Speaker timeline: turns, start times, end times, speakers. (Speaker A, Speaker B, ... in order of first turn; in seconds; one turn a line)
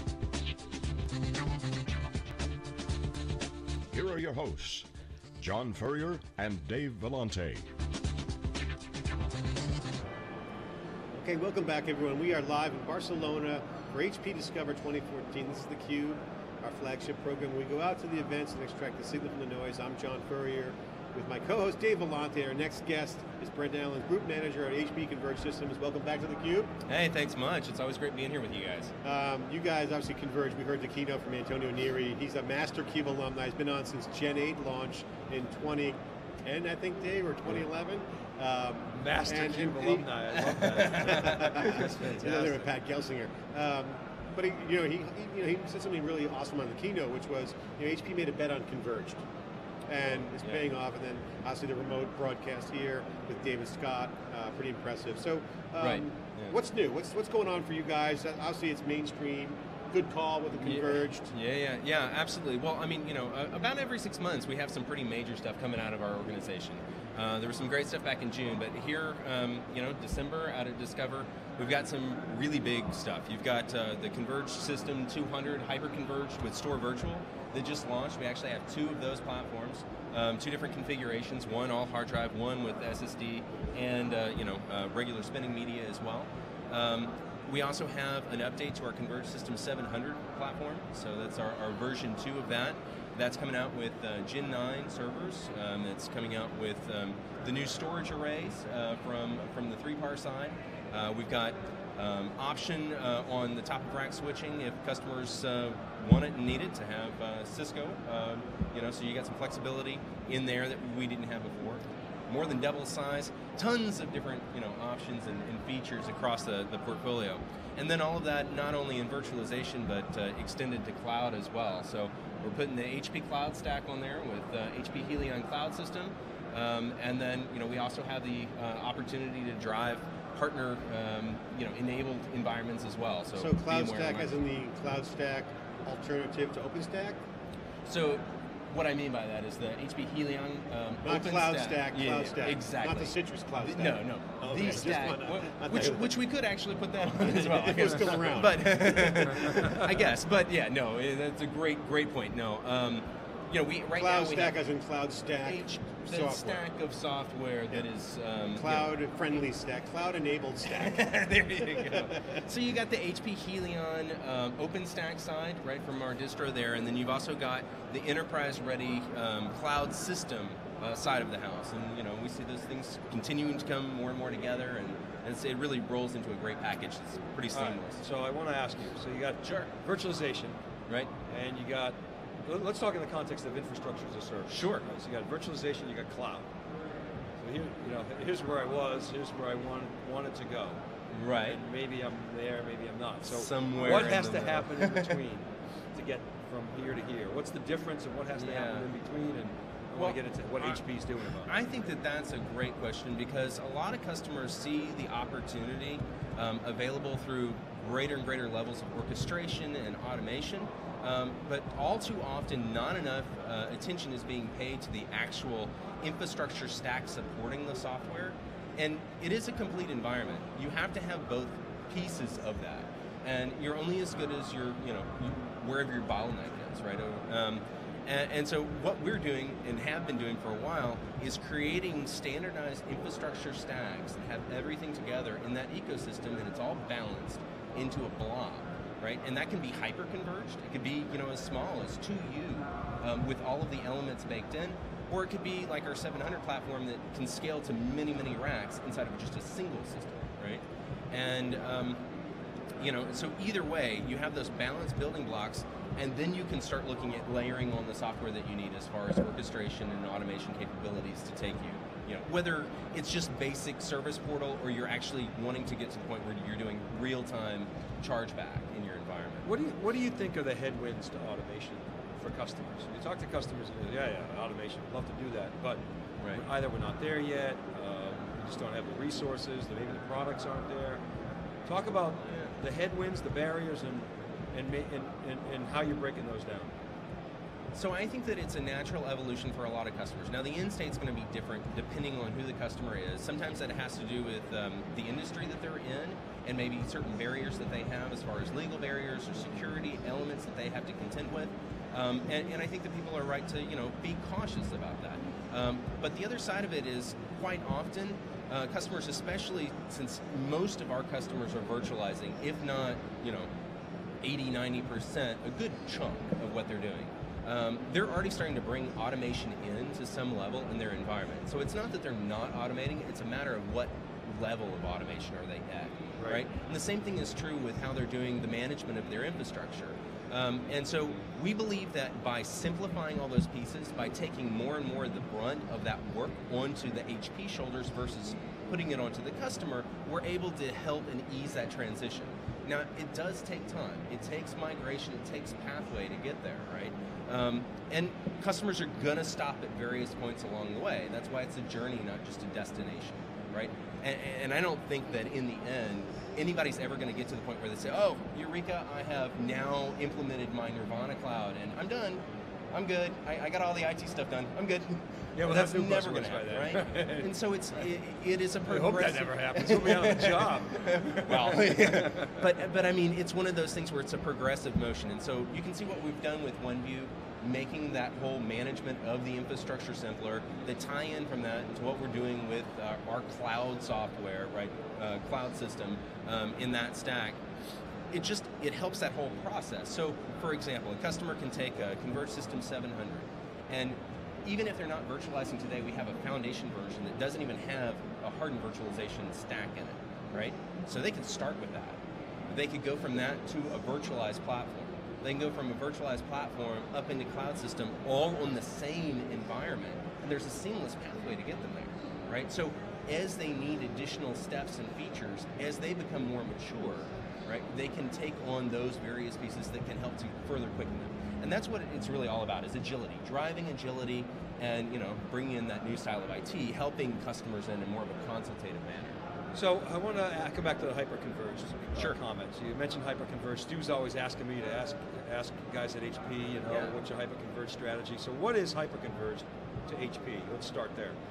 Speaker A: 3.9-7.7
Speaker B: 11.2-26.7
Speaker C: 26.9-28.9
Speaker B: 29.0-49.2
Speaker D: 38.9-42.7
Speaker C: 40.5-41.7
Speaker B: 49.9-61.3
Speaker C: 50.4-50.7
Speaker C: 55.8-56.6
Speaker C: 60.6-134.3
Speaker B: 133.3-137.2
Speaker C: 137.8-154.6
Speaker B: 141.0-146.1
Speaker B: 147.2-149.9
Speaker B: 154.0-156.6
Speaker C: 155.4-158.9
Speaker B: 158.5-162.5
Speaker C: 160.6-178.0
Speaker D: 177.5-180.6
Speaker C: 179.4-179.7
Speaker D: 181.3-186.5
Speaker C: 184.5-184.8
Speaker D: 187.4-190.8
Speaker C: 191.1-191.6
Speaker D: 191.4-201.5
Speaker C: 193.2-195.2
Speaker C: 198.3-198.9
Speaker C: 200.0-200.8
Speaker C: 201.3-252.1
Speaker C: 252.8-269.5
Speaker D: 269.4-275.8
Speaker D: 276.3-281.0
Speaker D: 281.6-286.7
Speaker C: 282.3-282.5
Speaker C: 287.7-313.5
Speaker C: 314.2-387.4
Speaker D: 326.2-326.4
Speaker D: 365.4-367.8
Speaker D: 368.6-372.3
Speaker C: 388.1-429.2
Speaker D: 429.5-441.2
Speaker C: 436.7-437.0